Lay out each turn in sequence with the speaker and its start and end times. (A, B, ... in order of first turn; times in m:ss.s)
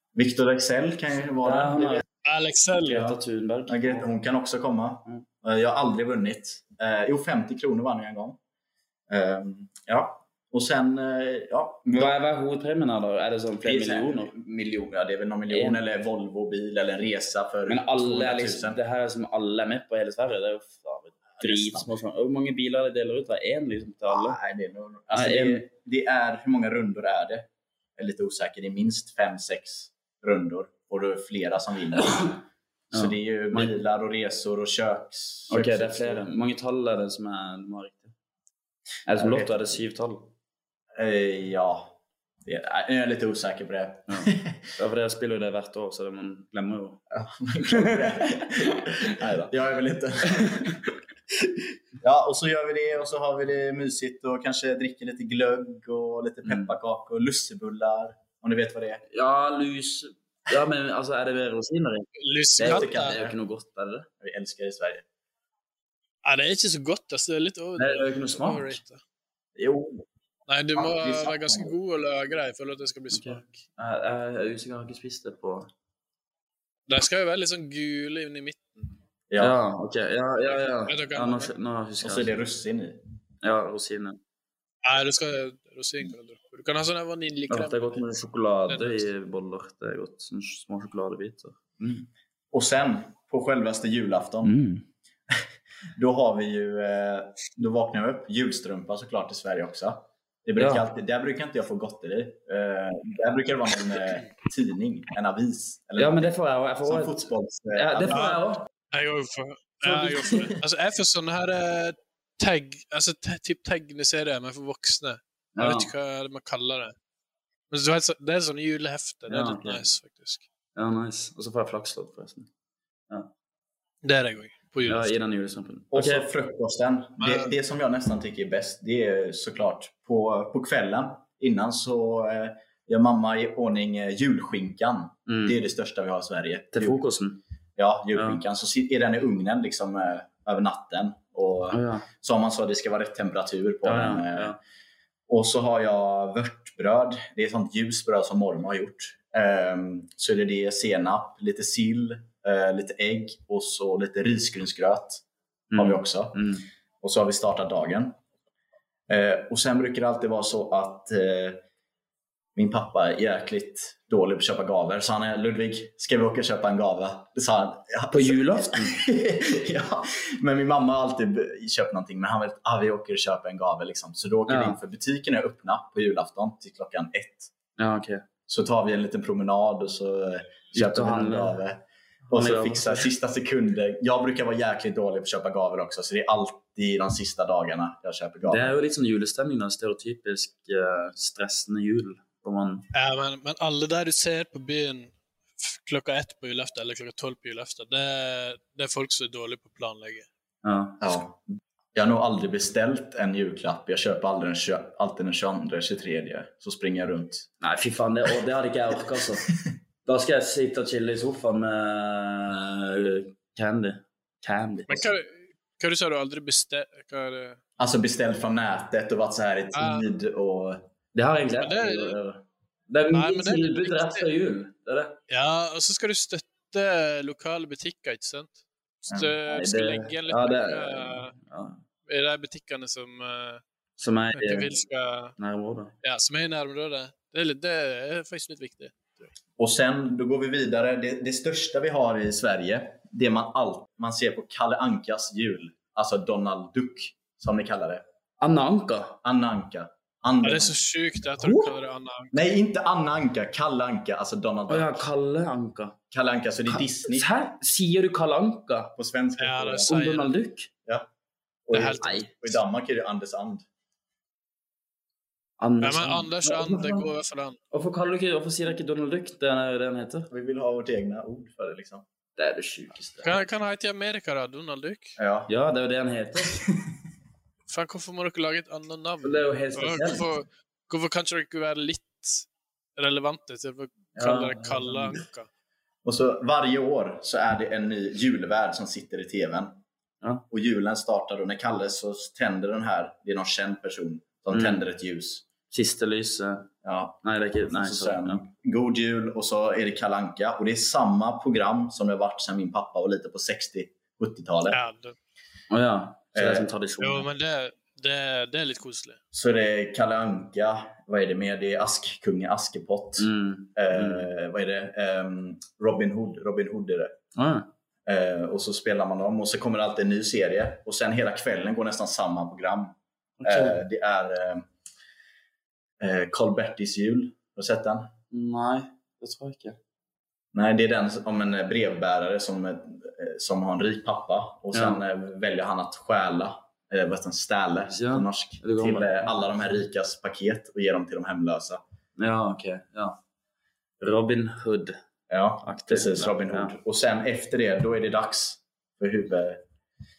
0:00.2-0:02.0 A
0:01.4-0:02.0 B
0:02.2-0:03.2 C
0:02.8-0:04.1 B
0:03.7-0:08.4 A
0:09.1-0:12.1 A
0:11.9-0:14.3 B
0:13.6-0:18.8 A
0:15.5-0:15.8 B
0:17.7-0:24.4 B
0:21.4-0:21.9 A
0:24.1-0:32.4 A
0:25.1-0:25.7 B
0:32.9-0:33.7 B
0:32.9-0:36.3 A
0:35.5-0:38.1 B
0:39.1-0:40.3 B
0:39.2-0:39.7 A
0:41.0-0:44.7 A
0:44.1-0:47.0 B
0:47.1-0:59.0 A
0:47.7-0:48.2 B
0:49.0-0:49.5 B
0:56.4-0:56.7 B
0:59.1-1:02.1 B
1:02.2-1:03.2 C
1:02.6-1:03.4 A
1:02.6-1:04.1 B
1:04.2-1:05.0 A
1:06.2-1:09.0 C
1:07.8-1:08.8 B
1:09.6-1:10.0 A
1:10.5-1:13.5 C
1:10.8-1:11.7 A
1:13.1-1:15.7 B
1:16.9-1:18.9 C
1:19.3-1:19.6 A
1:19.4-1:22.4 B
1:20.5-1:21.5 C
1:22.0-1:23.0 A
1:23.4-1:24.2 B
1:24.8-1:28.0 C
1:27.5-1:32.1 B
1:28.7-1:29.1 C
1:32.5-1:34.6 A
1:34.4-1:34.9 B
1:36.0-1:48.4 A
1:40.6-1:40.9 B
1:46.0-1:48.7 B
1:48.1-1:48.4 C
1:48.9-1:56.9 C
1:50.3-1:50.6 A
1:55.6-1:55.9 B
1:57.7-2:00.4 C
1:59.3-1:59.9 B
2:00.8-2:02.5 B
2:04.0-2:05.2 C
2:04.9-2:06.3 B
2:05.9-2:17.0 A
2:07.2-2:07.5 C
2:15.3-2:15.6 B
2:16.7-2:17.4 B
2:17.8-2:24.6 A
2:18.1-2:18.4 B
2:21.7-2:22.1 B
2:23.8-2:24.6 B
2:25.3-2:35.2 A
2:35.7-2:36.6 B
2:35.8-2:36.4 A
2:37.0-2:38.2 A
2:39.1-2:41.6 A
2:42.6-2:57.5 A
2:48.1-2:49.0 B
2:54.5-2:54.8 B
2:57.8-2:58.3 B
2:58.5-3:08.7 A
3:00.7-3:01.6 B
3:02.3-3:03.1 B
3:08.5-3:12.9 B
3:12.9-3:20.3 C
3:20.6-3:21.2 B
3:21.0-3:21.4 A
3:21.9-3:27.5 A
3:27.6-3:29.5 B
3:30.1-3:35.1 B
3:34.9-3:37.6 C
3:37.8-3:40.9 A
3:39.7-3:40.1 C
3:41.1-3:45.2 B
3:41.6-3:42.2 C
3:43.1-3:44.3 C
3:45.3-3:51.4 C
3:49.1-3:49.3 A
3:49.5-3:51.8 B
3:52.1-3:53.6 C
3:54.0-3:54.8 B
3:54.4-3:55.4 C
3:55.4-3:56.0 B
3:56.0-3:59.1 C
3:59.6-4:08.0 A
4:08.4-4:09.2 B
4:09.2-4:10.8 A
4:10.4-4:12.4 C
4:11.4-4:11.7 A
4:12.3-4:15.1 A
4:14.7-4:16.0 B
4:16.1-4:17.3 A
4:16.7-4:19.0 B
4:19.0-4:19.9 A
4:19.4-4:20.4 C
4:19.9-4:20.7 B
4:21.7-4:23.7 A
4:21.7-4:22.5 C
4:22.0-4:22.3 B
4:25.6-4:27.1 B
4:25.8-4:27.6 C
4:27.7-4:30.3 B
4:30.3-4:32.0 A
4:32.4-4:33.4 B
4:33.2-4:35.2 C
4:35.2-4:35.5 A
4:35.5-4:36.6 B
4:37.7-4:45.5 C
4:39.2-4:40.3 B
4:44.2-4:45.2 B
4:46.0-4:49.8 A
4:50.5-4:55.4 A
4:54.5-4:54.8 B
4:55.7-4:56.7 B
4:56.8-5:04.8 A
4:57.2-4:58.4 B
5:04.7-5:05.2 C
5:05.7-5:07.3 B
5:06.3-5:06.7 A
5:07.0-5:09.2 C
5:09.3-5:17.2 A
5:13.2-5:14.3 B
5:17.4-5:17.7 B
5:18.1-5:24.6 A
5:23.4-5:23.8 B
5:26.0-5:28.1 A
5:28.3-5:29.8 B
5:30.5-5:41.8 A
5:34.7-5:35.0 B
5:37.9-5:39.4 B
5:42.2-5:43.2 B
5:44.0-5:45.0 B
5:45.3-5:49.6 A
5:45.6-5:46.8 B